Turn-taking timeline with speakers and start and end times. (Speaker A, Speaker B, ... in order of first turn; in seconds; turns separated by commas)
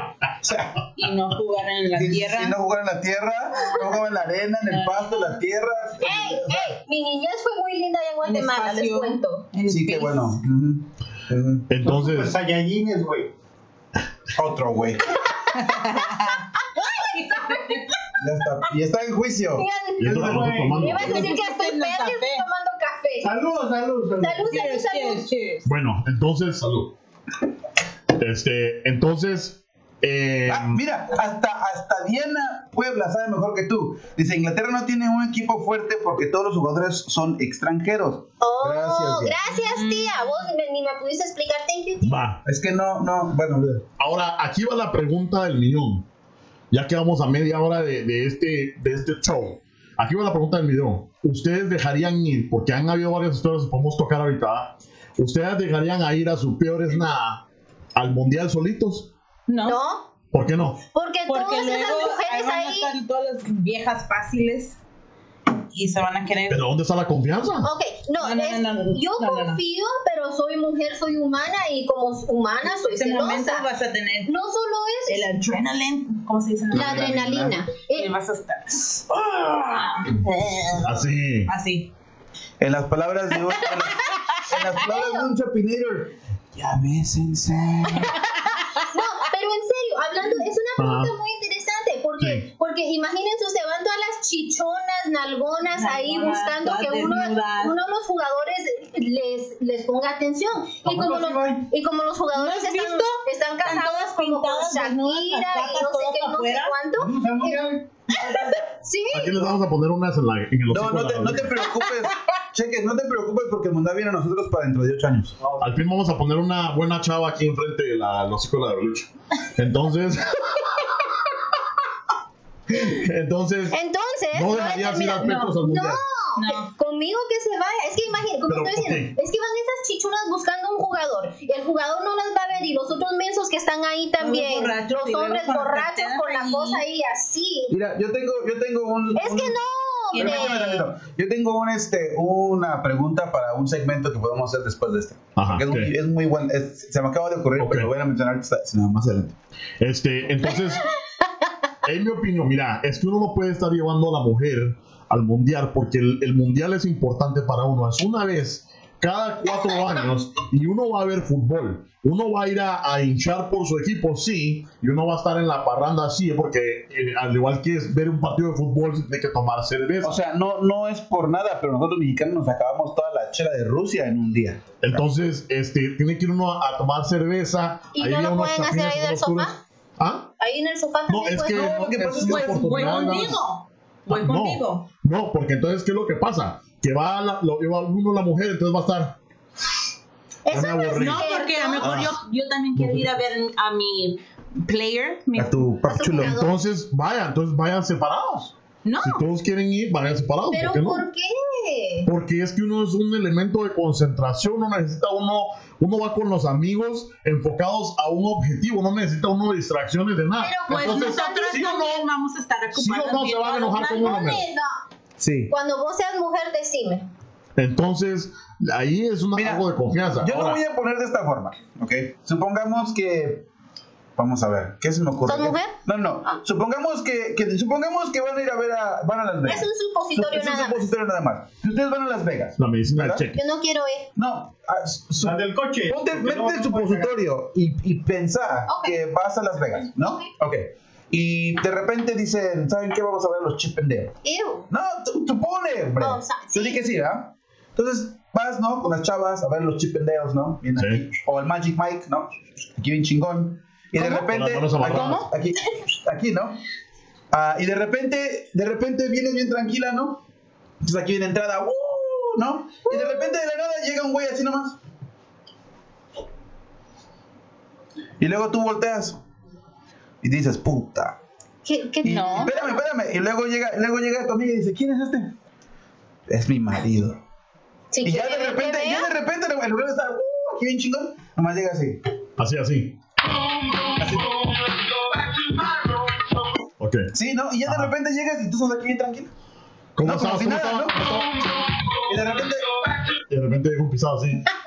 Speaker A: 0.4-0.9, Speaker B: 0.9-2.5, Speaker A: 1.9-6.8, Speaker B: 4.7-5.4, Speaker C: 6.0-9.4, Speaker B: 8.2-10.3, Speaker A: 9.7-11.7, Speaker D: 11.7-12.3, Speaker E: 11.8-13.3, Speaker A: 14.3-15.2, Speaker B: 15.5-17.9, Speaker C: 16.8-17.8, Speaker A: 18.2-19.6, Speaker C: 19.6-23.3, Speaker D: 20.0-21.3, Speaker E: 20.0-21.0, Speaker B: 21.0-22.4, Speaker E: 23.2-24.5, Speaker C: 24.2-25.3, Speaker B: 24.5-25.7, Speaker D: 25.6-26.9, Speaker D: 28.1-30.8, Speaker A: 30.5-39.4, Speaker C: 38.4-42.2, Speaker B: 39.6-40.3, Speaker D: 42.0-42.4, Speaker A: 42.4-43.8, Speaker D: 44.0-46.0, Speaker D: 46.7-57.4, Speaker D: 57.9-59.1, Speaker B: 59.5-59.8, Speaker C: 59.6-60.1, Speaker D: 60.3-60.8, Speaker C: 60.9-62.9, Speaker B: 61.3-64.8, Speaker B: 65.5-66.6, Speaker D: 66.5-67.7, Speaker C: 67.6-73.7, Speaker B: 68.2-69.6, Speaker B: 72.9-74.3, Speaker C: 74.2-75.3, Speaker B: 75.1-77.1, Speaker A: 76.7-77.6, Speaker C: 76.7-78.1, Speaker B: 77.9-80.9, Speaker D: 80.8-81.5, Speaker B: 81.5-81.9, Speaker A: 82.6-88.2, Speaker C: 84.8-85.3, Speaker C: 88.9-109.3, Speaker D: 90.8-91.1, Speaker D: 92.2-92.5, Speaker B: 95.8-97.7, Speaker E: 100.8-101.7, Speaker B: 102.3-106.8, Speaker E: 107.0-108.1, Speaker D: 109.1-111.6, Speaker A: 110.7-115.4, Speaker E: 115.4-115.7, Speaker D: 115.6-121.2, Speaker D: 122.7-123.8, Speaker C: 123.7-137.7, Speaker D: 124.3-126.0, Speaker B: 126.4-126.7, Speaker D: 128.5-129.1, Speaker B: 134.2-136.8, Speaker A: 137.7-139.6, Speaker C: 139.2-140.8, Speaker B: 140.1-140.8, Speaker A: 140.2-149.3, Speaker D: 145.3-145.9, Speaker D: 147.6-147.9, Speaker D: 149.8-150.8, Speaker D: 151.8-170.2, Speaker A: 170.0-175.0, Speaker D: 174.8-180.3, Speaker C: 177.9-179.6, Speaker C: 180.4-181.9, Speaker D: 181.1-183.4, Speaker A: 181.5-183.4, Speaker B: 182.2-184.8, Speaker D: 184.1-189.2, Speaker C: 190.4-192.0, Speaker D: 190.5-191.3, Speaker B: 190.9-195.6, Speaker D: 191.8-192.2, Speaker D: 192.8-193.1, Speaker A: 195.3-196.4, Speaker C: 195.9-196.5, Speaker D: 196.2-201.0, Speaker B: 198.8-199.2, Speaker C: 200.5-202.1, Speaker D: 202.0-212.0, Speaker C: 210.4-211.9, Speaker B: 210.7-214.4, Speaker D: 212.7-214.4, Speaker C: 213.9-214.7, Speaker A: 215.2-215.5, Speaker C: 215.5-217.1, Speaker D: 217.6-220.6, Speaker A: 219.3-219.7, Speaker A: 220.2-223.4, Speaker A: 224.2-233.2, Speaker C: 225.2-225.7, Speaker C: 229.4-230.9, Speaker D: 232.6-233.4, Speaker C: 233.3-234.1, Speaker A: 234.2-244.1, Speaker E: 235.2-237.1, Speaker C: 238.7-239.0, Speaker C: 244.2-244.7, Speaker A: 244.7-256.6, Speaker C: 246.0-246.8, Speaker D: 250.8-251.0, Speaker D: 254.0-255.3, Speaker B: 254.8-255.3, Speaker A: 257.3-260.2, Speaker A: 260.8-264.8, Speaker A: 268.2-269.2, Speaker A: 270.2-271.2, Speaker C: 271.6-272.8, Speaker B: 272.0-272.5, Speaker A: 272.0-275.3, Speaker A: 276.3-277.2, Speaker C: 277.9-279.1, Speaker A: 278.0-282.0, Speaker D: 282.4-282.9, Speaker A: 284.0-284.5, Speaker D: 286.8-287.1, Speaker A: 287.1-289.3, Speaker D: 287.6-287.9, Speaker D: 289.9-291.3, Speaker A: 290.0-291.3, Speaker A: 292.0-292.8, Speaker D: 293.3-294.5